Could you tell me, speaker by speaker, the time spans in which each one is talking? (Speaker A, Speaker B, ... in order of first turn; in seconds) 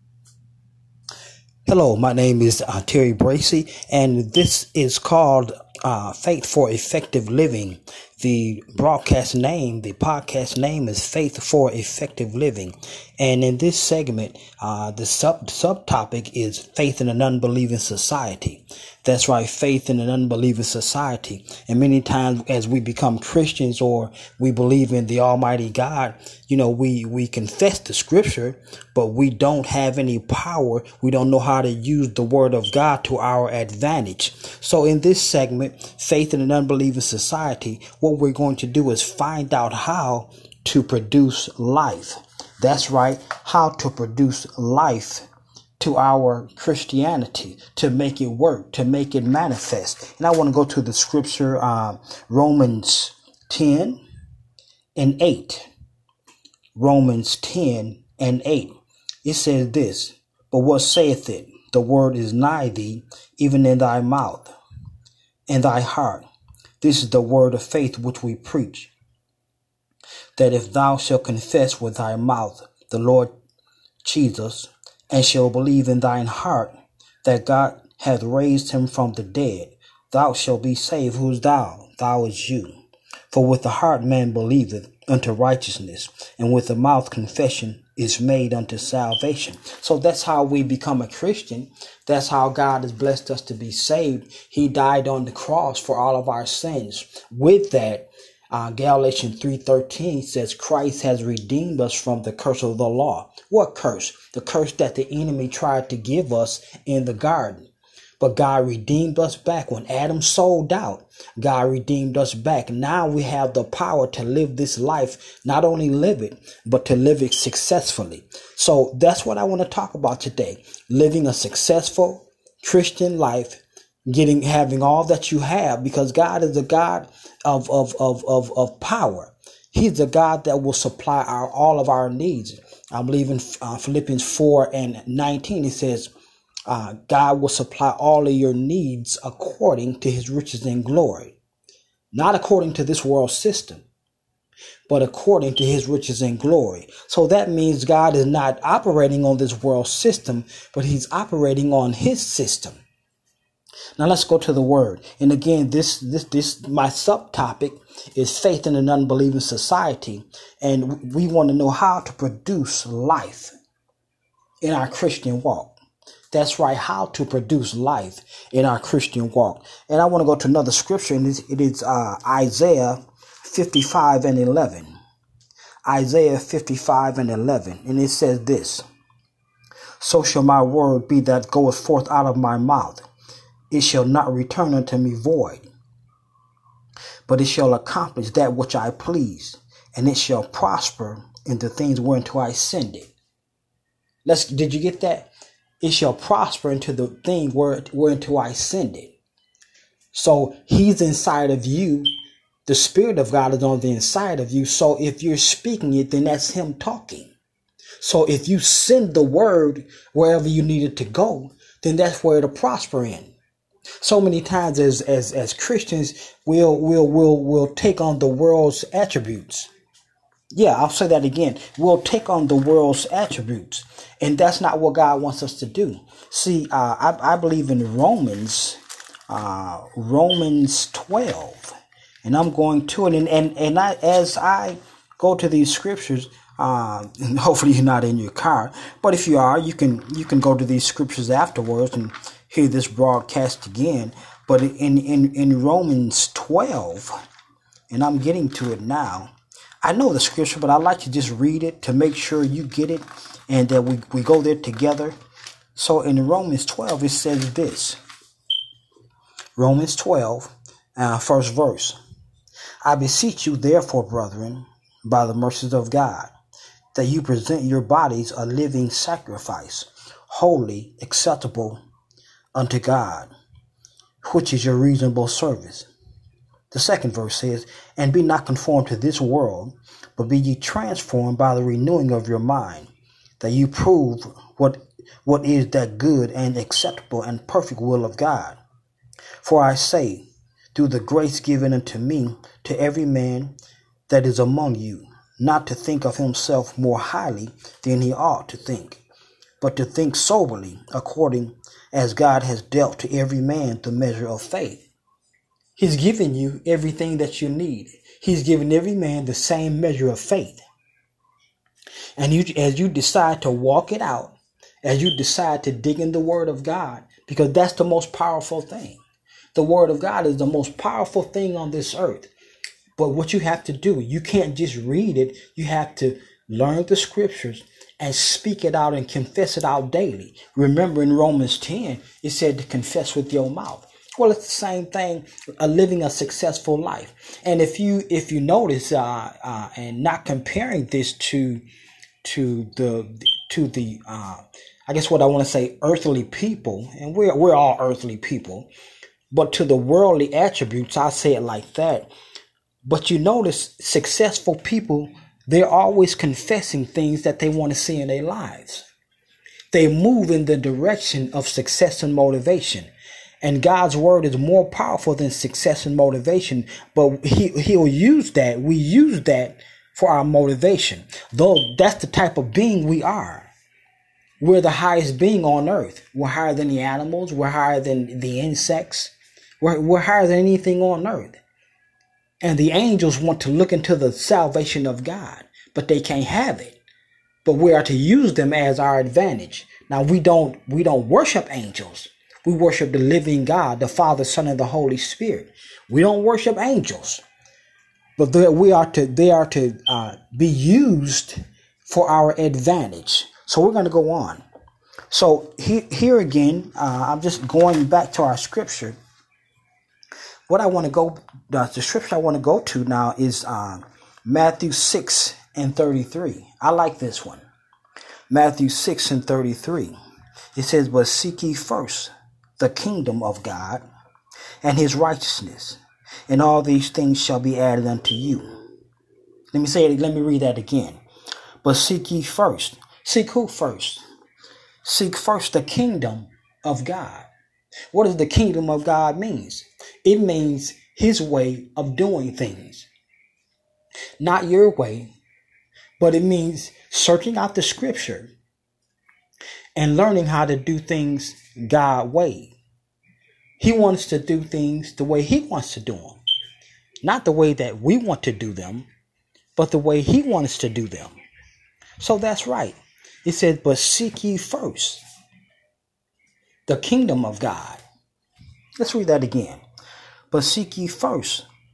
Speaker A: 1.7-45.2, 45.8-54.0, 55.0-55.7, 56.8-64.5, 65.5-66.2, 66.8-68.9, 70.3-73.3, 74.0-76.7, 77.2-82.8, 83.3-136.1, 136.7-141.4, 142.1-143.8, 144.9-152.8, 154.0-163.5, 164.6-165.7, 166.3-174.9, 175.8-178.8, 180.0-183.0, 183.7-185.7, 187.3-193.1, 194.2-195.3, 195.8-199.2, 200.1-202.1, 202.7-207.3, 208.0-213.3, 214.0-219.7, 220.5-247.1, 247.9-255.2, 255.8-258.0, 259.6-262.0, 262.8-266.3, 266.9-271.8, 272.6-273.3, 274.2-275.9, 276.7-288.6, 289.4-293.5, 294.1-299.0, 299.6-304.9, 305.8-310.6, 312.2-319.0, 319.6-322.3, 323.0-341.6, 342.2-348.7, 349.3-352.1, 352.8-358.9, 359.7-362.9, 363.4-373.5, 374.4-381.4, 382.4-386.8, 387.4-397.2, 398.2-404.4, 405.1-409.0, 410.5-417.4, 418.3-419.9, 420.6-423.8, 424.6-428.4, 429.5-431.0, 431.6-434.0, 434.8-437.3, 437.9-442.9, 444.2-445.1, 446.0-448.3, 449.8-452.6, 453.6-456.2, 457.0-458.9, 459.6-461.2, 462.0-465.0, 466.7-467.8, 468.8-469.6, 470.3-471.4